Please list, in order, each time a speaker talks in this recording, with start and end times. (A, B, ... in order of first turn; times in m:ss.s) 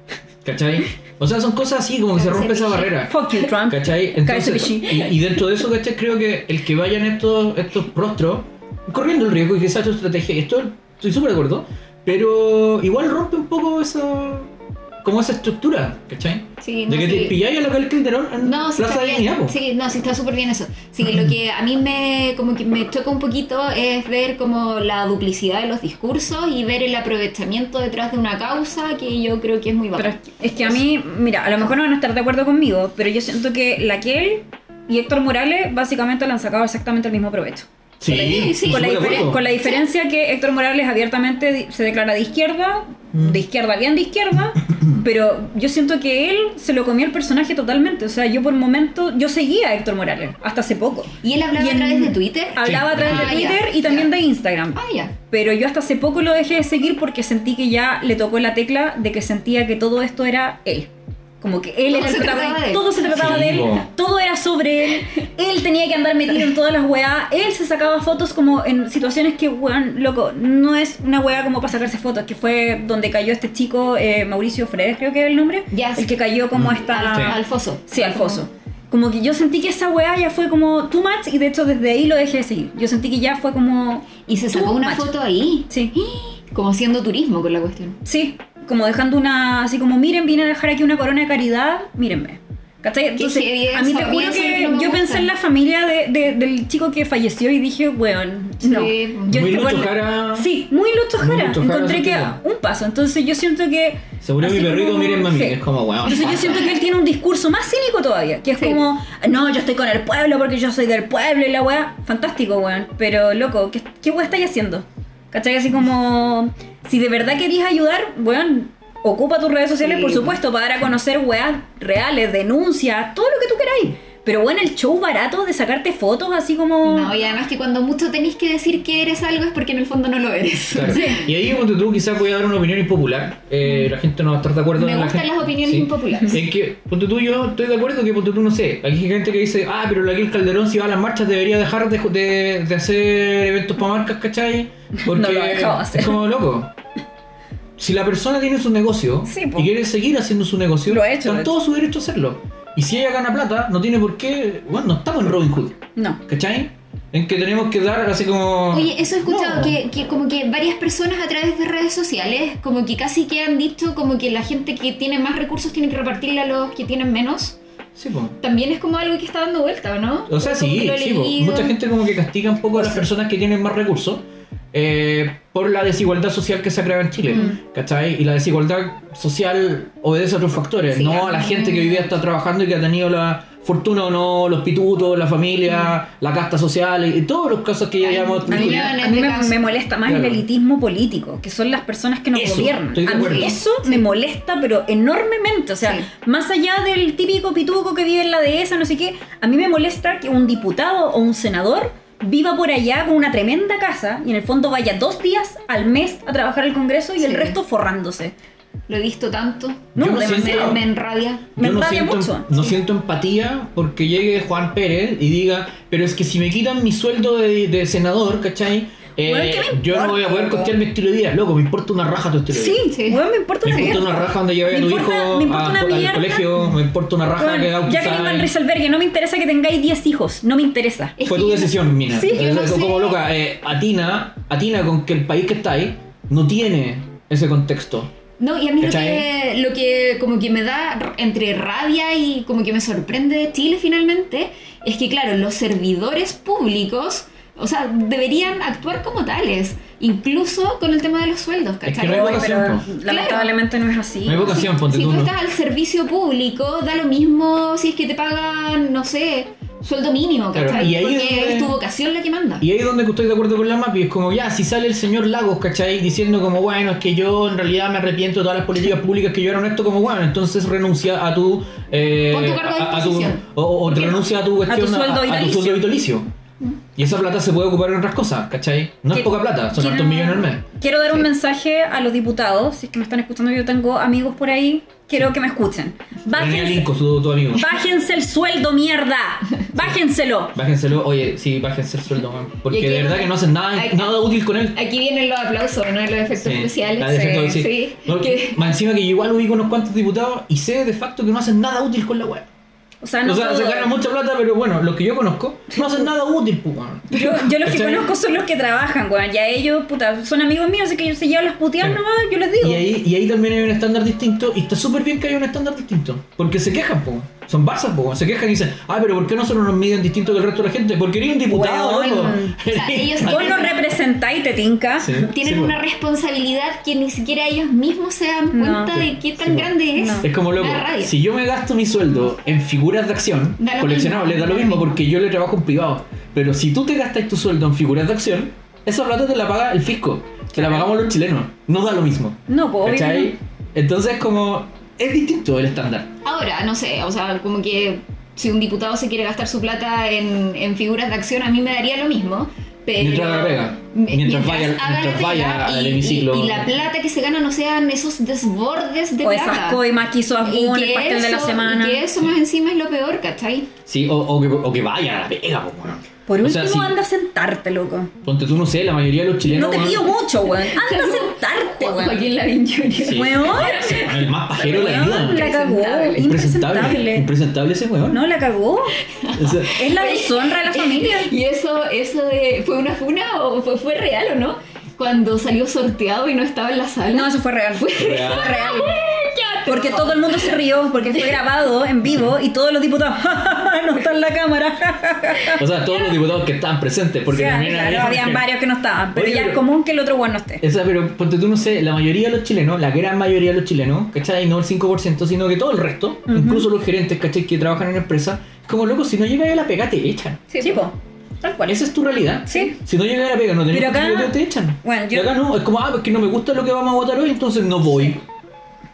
0:00.4-0:14.5 A
0:02.2-0:02.9 B
0:03.0-0:05.2 C
0:15.0-0:19.6 A
0:16.6-0:17.4 B
0:18.4-0:30.8 B
0:30.0-0:37.7 C
0:38.0-0:39.4 A
0:38.0-0:39.8 B
0:38.6-1:00.9 C
0:43.1-0:43.4 A
0:44.7-0:45.0 A
0:51.2-0:54.1 B
0:52.6-0:53.5 A
0:54.8-0:55.1 B
1:01.4-1:25.1 C
1:01.9-1:03.0 B
1:03.0-1:03.9 A
1:15.7-1:16.1 B
1:16.5-1:17.4 A
1:16.9-1:18.4 B
1:24.2-1:28.0 B
1:28.0-2:07.2 C
1:33.2-1:35.3 B
1:38.6-1:39.4 B
1:39.3-1:40.5 A
1:41.2-1:42.4 A
1:44.2-1:46.8 A
1:59.8-2:00.4 B
2:06.8-2:11.2 B
2:10.7-2:26.7 A
2:10.9-2:11.2 C
2:14.8-2:16.4 B
2:25.0-2:26.2 C
2:27.8-2:39.8 A
2:29.3-2:29.7 C
2:30.9-2:31.6 C
2:36.0-2:36.2 C
2:38.7-2:47.6 B
2:48.0-2:48.4 A
2:48.4-2:51.8 B
2:50.3-3:09.0 A
3:00.9-3:02.1 B
3:08.0-3:09.7 B
3:08.5-3:28.3 C
3:10.1-3:10.4 A
3:12.3-3:13.6 A
3:13.1-3:14.0 B
3:15.8-3:16.1 B
3:27.2-3:27.6 B
3:28.9-3:31.5 B
3:30.0-3:30.8 A
3:30.0-3:30.8 C
3:31.6-3:32.7 C
3:31.6-3:42.8 A
3:39.2-3:40.8 C
3:42.5-3:46.7 C
3:42.8-3:43.2 B
3:43.6-3:48.5 A
3:47.4-3:51.2 C
3:51.2-3:51.8 B
3:51.3-3:58.1 A
3:52.1-3:52.6 C
3:52.3-3:53.2 B
3:58.4-4:13.6 B
3:58.8-3:59.3 A
4:11.8-4:12.9 A
4:12.0-4:14.7 C
4:14.2-4:15.3 A
4:14.4-4:22.6 B
4:20.5-4:21.8 A
4:22.6-4:36.3 A
4:32.3-4:33.4 B
4:33.9-4:34.2 C
4:34.7-4:35.9 C
4:37.0-4:40.6 A
4:39.1-4:46.9 C
4:46.3-4:47.7 A
4:47.5-4:50.6 C
4:50.5-4:54.8 A
4:52.7-4:58.6 B
4:56.4-5:02.5 A
5:03.0-5:03.9 C
5:03.2-5:08.1 A
5:05.7-5:06.0 C
5:07.1-5:12.8 C
5:12.6-5:23.6 A
5:21.5-5:22.6 C
5:22.7-5:23.9 B
5:23.2-5:25.2 C
5:25.0-5:25.8 A
5:25.1-5:31.2 B
5:28.5-5:29.1 C
5:29.4-5:46.1 A
5:30.0-5:30.3 C
5:33.6-5:35.0 B
5:40.6-5:40.9 C
5:42.5-5:43.3 C
5:46.2-5:59.8 B
5:53.0-5:56.7 A
5:59.2-6:02.0 C
6:00.4-6:03.7 B
6:03.9-6:07.0 A
6:06.3-6:08.1 C
6:08.2-6:10.1 A
6:09.5-6:12.2 C
6:10.7-6:16.3 B
6:13.0-6:15.5 A
6:13.1-6:17.3 C
6:16.2-6:18.2 A
6:18.1-6:19.0 C
6:19.1-6:30.6 B
6:19.4-6:19.7 A
6:19.7-6:21.3 C
6:27.1-6:29.0 C
6:28.0-6:28.6 A
6:29.7-6:35.6 C
6:35.6-6:38.5 A
6:37.3-6:40.6 C
6:39.1-6:39.6 A
6:40.6-6:50.4 A
6:46.3-6:46.7 C
6:50.5-6:50.9 B
6:50.6-6:51.8 C
6:51.6-6:58.2 A
6:52.5-6:52.8 C
6:53.7-6:55.4 C